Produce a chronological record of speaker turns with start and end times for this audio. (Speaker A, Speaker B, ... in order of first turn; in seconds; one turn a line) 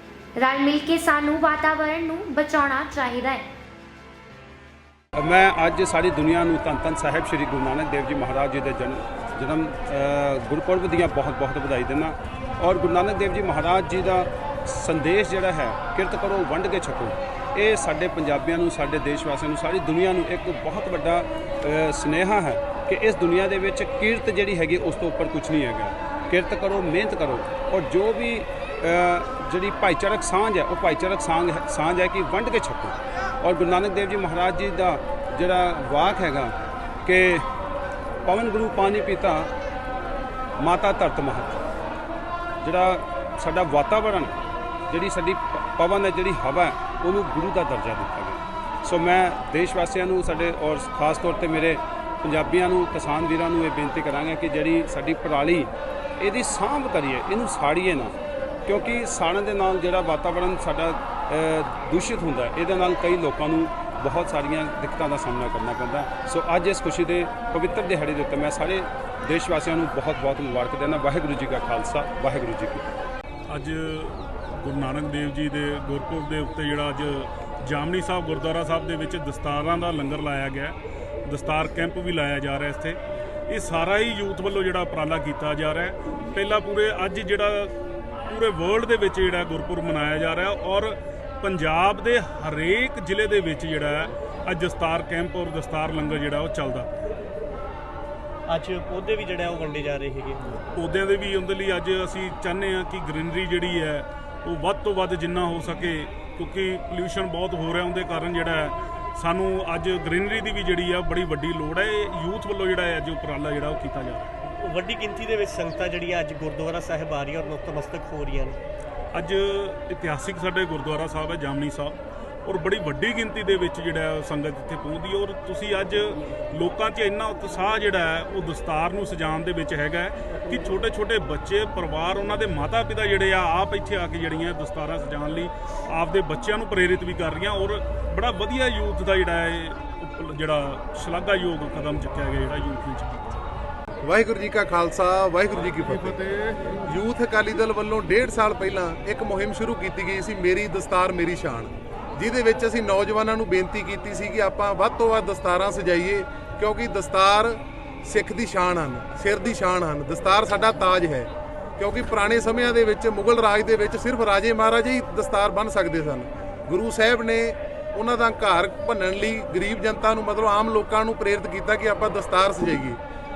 Speaker A: 0.4-3.4
Speaker B: 5.2-37.5
Speaker B: 38.2-39.5
Speaker B: 40.6-41.6
Speaker B: 42.6-44.4
Speaker B: 44.9-58.1
Speaker B: 58.7-72.8
Speaker C: 73.5-87.7
Speaker C: 88.3-96.9
Speaker D: 98.5-100.6
Speaker C: 100.8-114.3
Speaker D: 114.6-118.6
Speaker C: 119.1-143.4
Speaker E: 144.0-146.3
Speaker E: 146.8-173.0